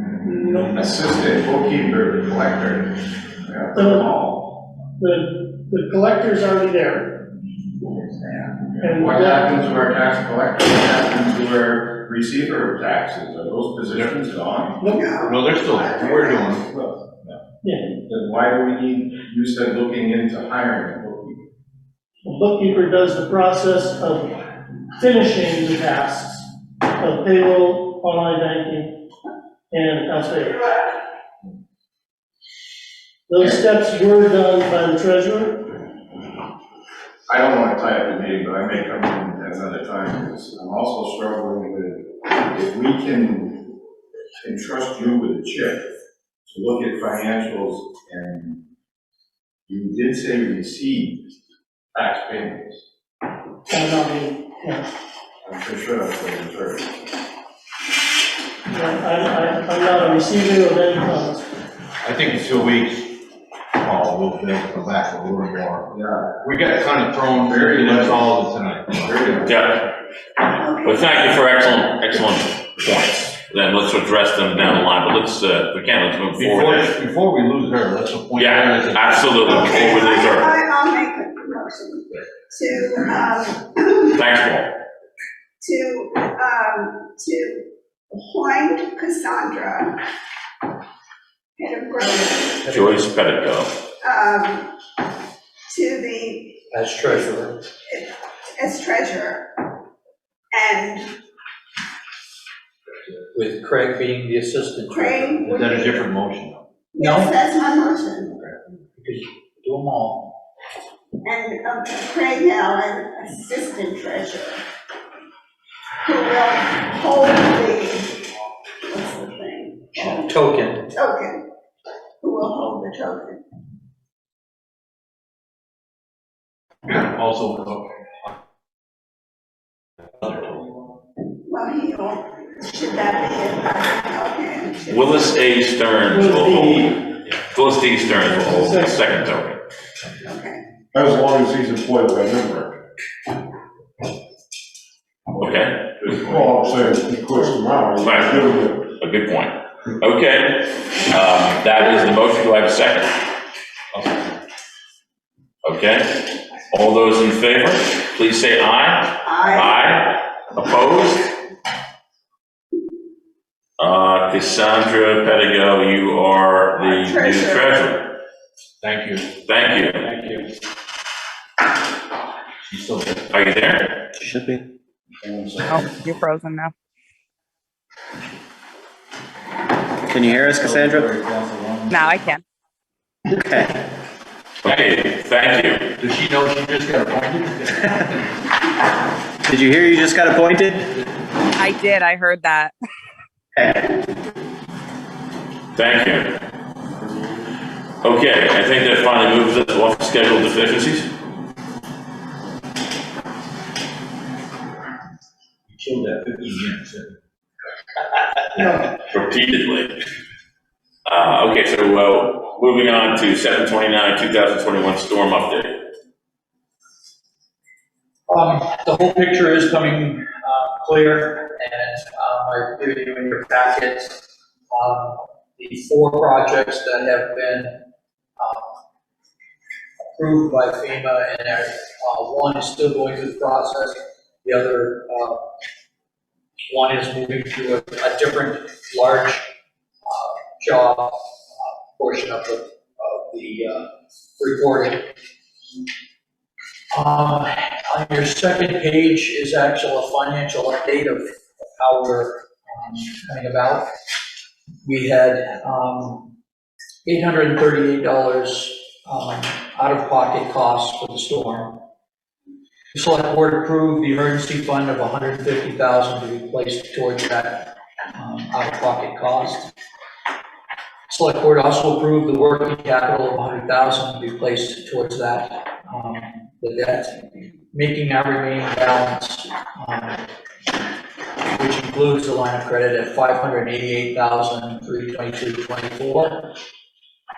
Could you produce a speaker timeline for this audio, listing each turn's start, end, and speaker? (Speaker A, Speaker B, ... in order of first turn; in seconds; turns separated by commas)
Speaker A: 0.3-0.7, Speaker B: 0.6-4.5, Speaker A: 3.7-4.1, Speaker A: 5.0-7.3, Speaker A: 8.8-9.5, Speaker B: 8.8-14.9, Speaker A: 14.8-15.2, Speaker C: 14.9-15.5, Speaker D: 15.1-16.6, Speaker B: 15.8-21.4, Speaker A: 17.6-17.9, Speaker A: 22.2-24.4, Speaker A: 24.9-26.5, Speaker A: 27.0-29.0, Speaker A: 29.7-30.7, Speaker A: 33.3-35.7, Speaker B: 37.3-43.6, Speaker B: 44.4-45.9, Speaker B: 46.5-48.6, Speaker B: 49.7-51.2, Speaker B: 51.9-52.8, Speaker A: 53.7-54.9, Speaker B: 55.4-56.9, Speaker A: 58.7-61.5, Speaker D: 62.0-63.1, Speaker D: 63.8-65.9, Speaker B: 65.9-66.4, Speaker D: 66.4-69.2, Speaker B: 67.4-68.3, Speaker B: 69.0-69.5, Speaker E: 69.4-69.9, Speaker C: 70.6-71.4, Speaker E: 70.8-76.9, Speaker D: 76.3-80.0, Speaker E: 78.3-80.5, Speaker C: 79.5-84.2, Speaker E: 84.1-84.7, Speaker C: 85.6-90.0, Speaker C: 91.6-92.6, Speaker E: 92.7-93.7, Speaker F: 92.7-93.0, Speaker C: 94.0-94.7, Speaker C: 95.7-96.6, Speaker F: 96.7-97.6, Speaker C: 97.9-99.5, Speaker C: 100.5-101.1, Speaker F: 103.3-105.3, Speaker C: 104.9-106.1, Speaker D: 105.4-106.6, Speaker C: 106.9-108.4, Speaker F: 107.0-107.3, Speaker F: 108.9-110.3, Speaker C: 111.2-114.6, Speaker C: 116.0-118.2, Speaker C: 118.9-120.3, Speaker F: 119.9-120.9, Speaker C: 120.9-121.4, Speaker C: 122.2-123.4, Speaker D: 126.9-128.3, Speaker D: 130.2-130.5, Speaker C: 131.4-135.3, Speaker E: 134.9-139.6, Speaker A: 136.1-136.9, Speaker A: 138.4-139.0, Speaker C: 140.2-140.6, Speaker G: 140.9-142.8, Speaker E: 145.4-146.0, Speaker B: 146.0-146.7, Speaker G: 146.1-148.8, Speaker E: 148.0-148.4, Speaker E: 149.0-153.2, Speaker D: 153.9-154.3, Speaker E: 155.6-161.3, Speaker C: 159.2-159.8, Speaker E: 163.8-168.1, Speaker C: 166.8-167.7, Speaker D: 168.8-169.3, Speaker E: 169.4-170.1, Speaker D: 170.1-170.4, Speaker D: 172.7-173.3, Speaker E: 173.3-174.0, Speaker H: 174.2-174.6, Speaker D: 175.5-175.8, Speaker I: 175.6-176.7, Speaker H: 180.1-181.1, Speaker D: 180.4-181.9, Speaker I: 181.9-182.4, Speaker H: 183.3-183.8, Speaker E: 184.6-185.9, Speaker D: 184.6-184.9, Speaker D: 186.0-188.2, Speaker H: 189.4-190.9, Speaker I: 191.6-192.7, Speaker H: 193.6-193.9, Speaker E: 195.7-196.3, Speaker E: 198.0-201.1, Speaker D: 205.7-207.1, Speaker E: 209.1-209.9, Speaker E: 211.1-215.7, Speaker F: 218.3-224.2, Speaker F: 224.7-227.8, Speaker F: 228.4-228.7, Speaker F: 230.1-235.4, Speaker F: 236.7-239.5, Speaker F: 240.0-245.0, Speaker F: 246.9-253.8, Speaker F: 254.8-256.3, Speaker F: 257.0-261.8, Speaker F: 262.9-269.7, Speaker F: 271.1-280.2, Speaker F: 281.5-286.4